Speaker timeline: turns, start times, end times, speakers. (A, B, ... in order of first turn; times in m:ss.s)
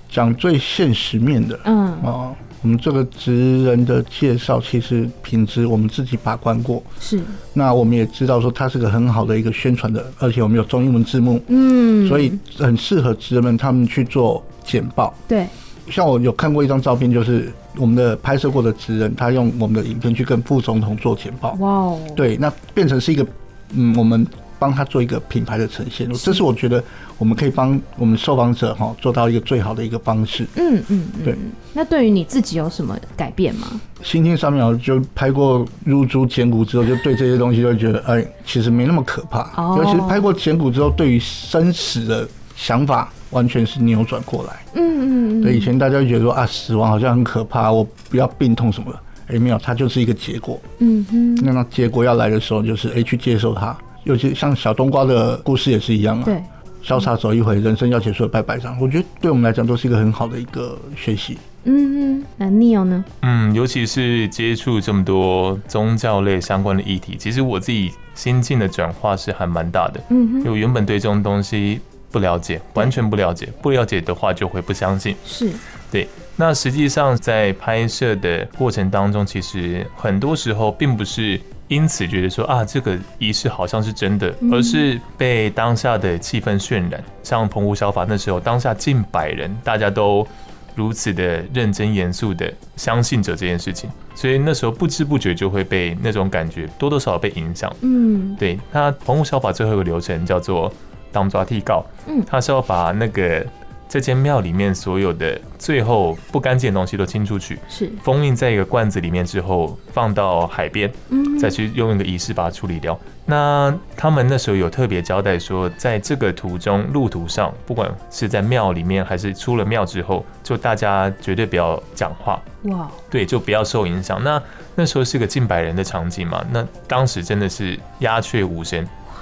0:00.1-0:06.9 A
0:01.6-0:02.1 B
0:07.0-0:07.4 B
0:07.5-0:11.5 A
0:11.5-0:12.4 B
0:12.0-0:15.2 A
0:15.3-0:15.5 B
0:15.8-0:21.6 A
0:21.5-0:22.2 B
0:22.1-0:30.5 A
0:30.5-0:33.8 B
0:34.0-0:44.6 A
0:39.5-0:40.2 B
0:44.7-0:45.7 B
0:45.4-0:50.6 A
0:50.8-0:51.5 B
0:51.4-1:01.4 A
1:01.6-1:03.0 B
1:03.2-1:15.2 C
1:10.1-1:10.5 B
1:15.2-1:15.6 B
1:15.9-1:37.8 C
1:24.4-1:24.8 B
1:37.8-1:38.4 B
1:38.4-2:02.4 C
1:47.7-1:48.0 B
1:51.1-1:51.5 B
2:02.6-2:03.0 B
2:03.1-2:08.9 C